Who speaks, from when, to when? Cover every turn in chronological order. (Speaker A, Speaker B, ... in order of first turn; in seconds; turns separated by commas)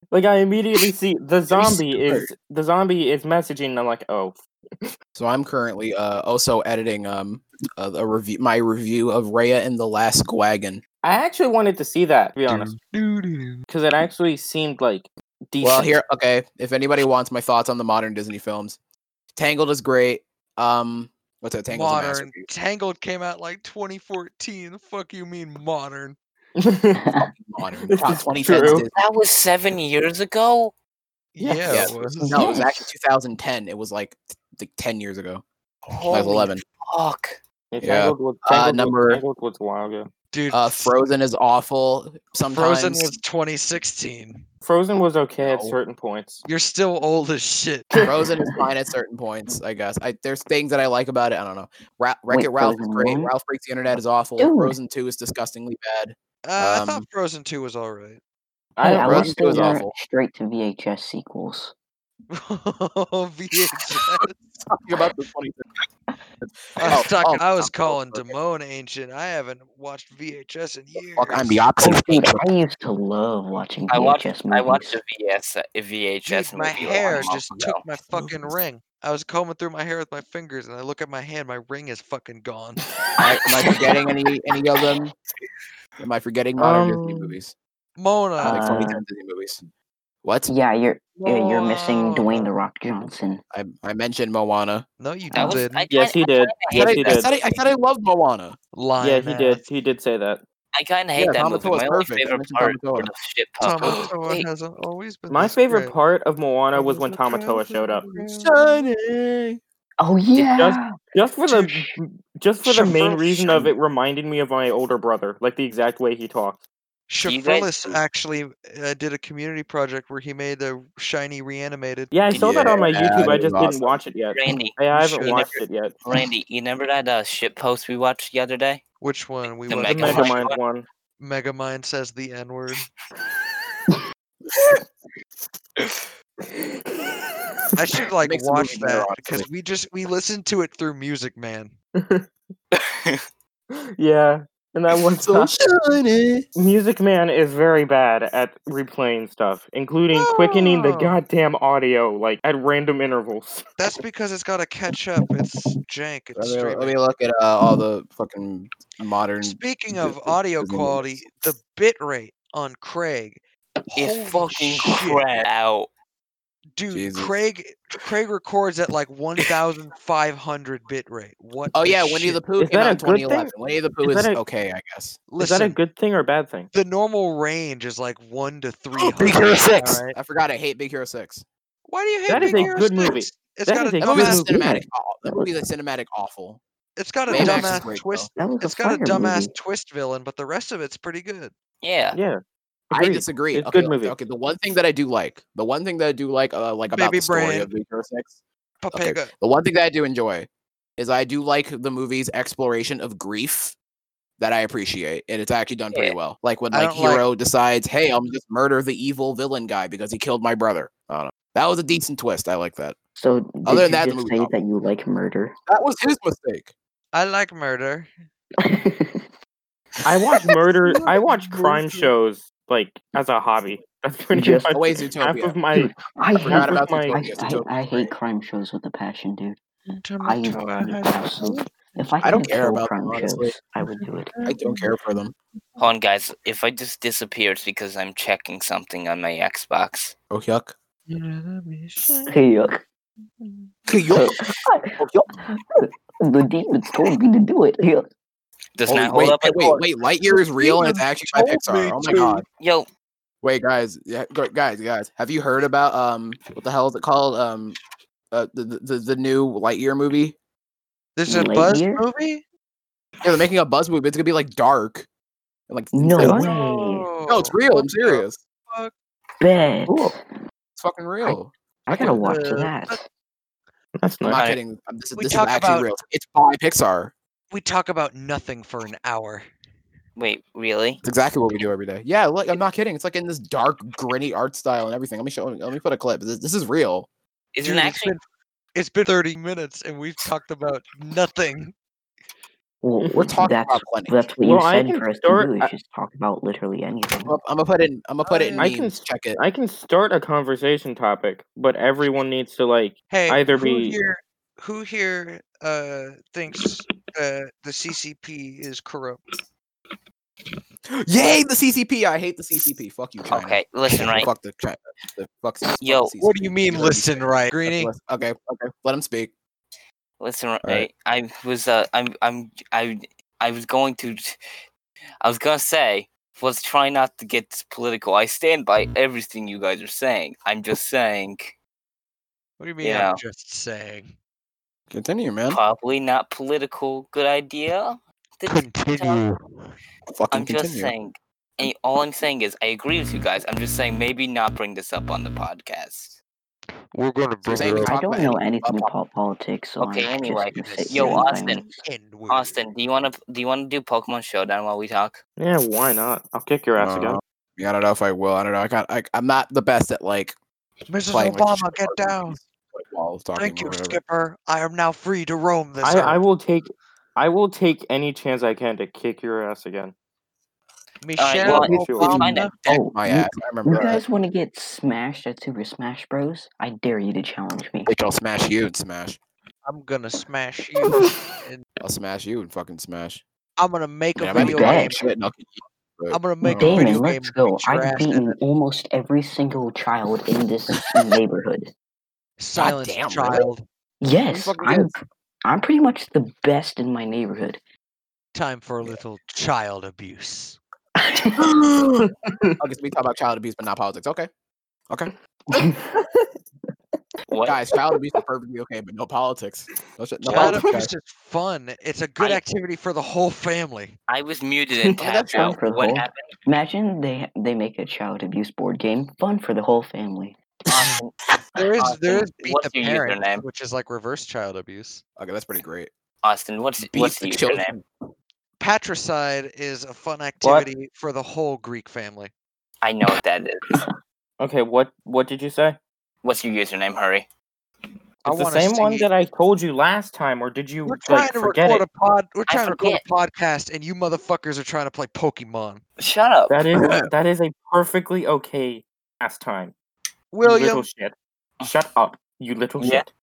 Speaker A: 0.1-4.9, Speaker B: 1.5-2.3, Speaker B: 5.2-10.8, Speaker A: 11.0-12.8, Speaker C: 12.5-13.6, Speaker A: 13.7-16.0, Speaker B: 15.6-18.8, Speaker B: 19.4-22.5, Speaker C: 21.7-26.2, Speaker A: 26.6-27.1, Speaker D: 26.9-27.3, Speaker B: 27.1-28.9, Speaker A: 27.9-28.9, Speaker E: 28.9-30.7, Speaker C: 31.4-32.5, Speaker A: 31.4-32.6, Speaker B: 31.7-35.4, Speaker C: 35.9-36.5, Speaker B: 36.1-36.6, Speaker E: 36.9-37.4, Speaker A: 37.7-40.1, Speaker B: 37.8-39.2, Speaker C: 40.3-41.0, Speaker B: 40.5-43.1, Speaker C: 42.5-44.4, Speaker A: 44.6-46.4, Speaker B: 45.4-45.8, Speaker C: 46.5-47.9, Speaker B: 48.0-57.1, Speaker D: 52.3-53.3, Speaker D: 54.4-54.8, Speaker C: 56.4-58.2, Speaker A: 58.8-59.8, Speaker D: 58.8-61.7, Speaker B: 59.0-59.9, Speaker C: 62.3-64.4, Speaker B: 64.2-65.7, Speaker B: 66.4-68.3, Speaker C: 66.8-71.6, Speaker B: 71.0-72.5, Speaker D: 71.8-75.0, Speaker E: 73.9-77.8, Speaker C: 76.2-82.8, Speaker B: 78.1-78.5, Speaker B: 83.2-85.1, Speaker B: 86.0-87.5, Speaker A: 86.6-87.4, Speaker C: 88.0-88.9, Speaker B: 88.4-89.6, Speaker D: 88.4-89.0, Speaker B: 90.2-90.5, Speaker D: 90.5-93.4, Speaker C: 91.2-92.5, Speaker B: 93.5-94.9, Speaker C: 95.0-95.9, Speaker E: 95.3-97.3, Speaker A: 95.9-97.3, Speaker B: 96.7-98.6, Speaker C: 98.7-99.6, Speaker A: 99.0-100.4, Speaker E: 100.7-104.5, Speaker B: 101.2-103.1, Speaker C: 103.6-106.0, Speaker A: 105.3-108.1, Speaker B: 106.7-109.6, Speaker C: 107.2-108.5, Speaker D: 110.0-111.0, Speaker A: 110.3-116.6, Speaker C: 111.5-111.7, Speaker D: 111.6-112.0, Speaker C: 112.6-113.7, Speaker C: 117.1-122.1, Speaker E: 117.2-118.0, Speaker A: 122.1-125.9, Speaker B: 122.3-124.0, Speaker E: 124.3-128.8, Speaker C: 124.9-125.5, Speaker C: 129.0-130.5, Speaker E: 129.7-130.6, Speaker A: 129.9-130.8, Speaker C: 131.2-132.8, Speaker E: 135.8-136.1, Speaker A: 136.5-137.2, Speaker C: 137.8-141.8, Speaker B: 138.2-139.5, Speaker A: 142.0-142.3, Speaker E: 142.7-143.2, Speaker A: 143.8-145.5, Speaker B: 145.1-146.6, Speaker A: 146.6-153.7, Speaker B: 150.1-151.1, Speaker C: 153.8-157.0, Speaker B: 156.3-161.5, Speaker C: 159.4-165.2, Speaker E: 164.0-165.9, Speaker C: 166.8-172.4, Speaker B: 166.9-167.3, Speaker B: 171.7-175.3, Speaker A: 172.6-174.4, Speaker C: 175.3-175.8, Speaker A: 175.3-176.7, Speaker C: 176.7-180.2, Speaker B: 179.0-181.4, Speaker C: 181.9-184.4, Speaker A: 182.3-184.5, Speaker B: 182.4-182.8, Speaker B: 184.0-186.6, Speaker D: 184.3-185.5, Speaker C: 187.0-191.5, Speaker B: 187.3-188.3, Speaker D: 187.3-187.8, Speaker D: 188.4-189.5, Speaker E: 191.8-192.2, Speaker A: 192.1-192.4, Speaker A: 192.9-194.2, Speaker B: 192.9-198.4, Speaker C: 196.9-197.7, Speaker C: 198.8-199.3, Speaker B: 198.9-203.8, Speaker B: 204.4-213.0, Speaker C: 206.7-207.3, Speaker D: 213.2-215.5, Speaker B: 213.7-214.5, Speaker B: 215.7-216.7, Speaker C: 217.1-218.1, Speaker D: 218.6-219.3, Speaker A: 220.1-227.2, Speaker B: 220.1-220.6, Speaker C: 220.9-222.1, Speaker D: 224.3-224.8, Speaker B: 224.7-225.6, Speaker D: 225.7-229.6, Speaker B: 226.4-228.1, Speaker C: 229.9-232.1, Speaker D: 230.2-234.3, Speaker B: 232.2-233.6, Speaker C: 233.8-234.9, Speaker B: 234.5-235.3, Speaker E: 235.8-240.2, Speaker B: 240.3-240.8, Speaker C: 241.1-242.3, Speaker D: 242.3-242.8, Speaker C: 243.4-243.7, Speaker B: 243.9-245.3, Speaker D: 244.1-248.1, Speaker E: 248.8-249.9, Speaker B: 248.9-252.4, Speaker C: 250.3-252.4, Speaker E: 252.6-252.9, Speaker B: 253.4-257.8, Speaker B: 258.3-260.4, Speaker C: 261.2-262.4, Speaker D: 261.3-262.0, Speaker B: 263.2-265.1, Speaker B: 265.7-266.5, Speaker D: 265.9-267.1, Speaker C: 266.2-268.9, Speaker B: 267.3-268.4, Speaker D: 269.4-270.2, Speaker A: 269.9-270.1, Speaker B: 270.8-272.2, Speaker D: 271.2-273.0, Speaker C: 271.9-273.0, Speaker A: 274.0-274.4, Speaker B: 274.3-277.1, Speaker E: 274.3-274.6, Speaker C: 275.2-275.9, Speaker C: 277.5-279.5, Speaker E: 280.2-281.0, Speaker B: 281.0-287.1, Speaker E: 287.5-288.2, Speaker C: 287.6-288.2, Speaker C: 288.8-291.8, Speaker D: 292.8-297.4, Speaker B: 293.1-294.3, Speaker A: 294.4-295.7, Speaker B: 297.2-299.4, Speaker C: 298.2-298.7, Speaker A: 298.6-304.0, Speaker C: 303.1-309.2, Speaker B: 311.0-319.3, Speaker E: 313.3-314.3, Speaker E: 315.8-316.1, Speaker C: 316.2-317.9, Speaker E: 320.2-324.4, Speaker E: 325.2-331.6, Speaker C: 332.6-334.1, Speaker E: 332.8-333.2, Speaker B: 334.9-335.6, Speaker E: 335.5-339.2, Speaker C: 338.5-339.7, Speaker B: 340.1-340.9, Speaker E: 340.3-346.2, Speaker C: 346.9-347.9, Speaker B: 347.4-348.9, Speaker D: 347.8-351.8, Speaker E: 349.8-351.6, Speaker C: 350.6-352.6, Speaker E: 352.3-355.2, Speaker A: 355.4-357.2, Speaker B: 356.8-360.4, Speaker C: 360.9-362.4, Speaker B: 361.1-364.0, Speaker C: 363.4-366.2, Speaker A: 365.8-369.9, Speaker C: 371.0-372.6, Speaker E: 371.2-372.5, Speaker A: 371.4-372.3, Speaker D: 372.6-377.9, Speaker B: 372.7-374.0, Speaker B: 377.9-379.2, Speaker C: 379.6-381.6, Speaker B: 381.8-383.2, Speaker C: 383.6-385.0, Speaker B: 384.2-387.0, Speaker D: 384.4-385.0, Speaker C: 386.1-388.4, Speaker D: 386.4-391.7, Speaker C: 392.4-393.6, Speaker B: 392.6-393.5, Speaker D: 394.0-394.9, Speaker B: 394.3-394.9, Speaker D: 395.5-397.6, Speaker C: 398.3-400.6, Speaker D: 401.0-401.5, Speaker B: 401.4-404.3, Speaker A: 402.2-402.6, Speaker E: 407.3-407.6, Speaker B: 407.4-410.9, Speaker E: 410.2-410.6, Speaker C: 410.3-414.0, Speaker E: 414.1-416.3, Speaker B: 415.0-415.6, Speaker D: 415.3-420.4, Speaker E: 420.7-421.2, Speaker C: 421.6-425.0, Speaker E: 421.7-423.4, Speaker B: 425.2-425.9, Speaker E: 426.2-427.8, Speaker B: 426.8-427.8, Speaker C: 428.6-432.3, Speaker E: 432.8-433.8, Speaker A: 434.4-435.8, Speaker E: 436.2-437.3, Speaker C: 438.2-439.1, Speaker A: 438.3-441.9, Speaker C: 440.9-445.8, Speaker E: 442.5-443.0, Speaker E: 446.0-446.6, Speaker A: 446.5-449.8, Speaker B: 446.7-447.1, Speaker C: 450.3-450.9, Speaker A: 450.4-453.1, Speaker E: 452.8-453.1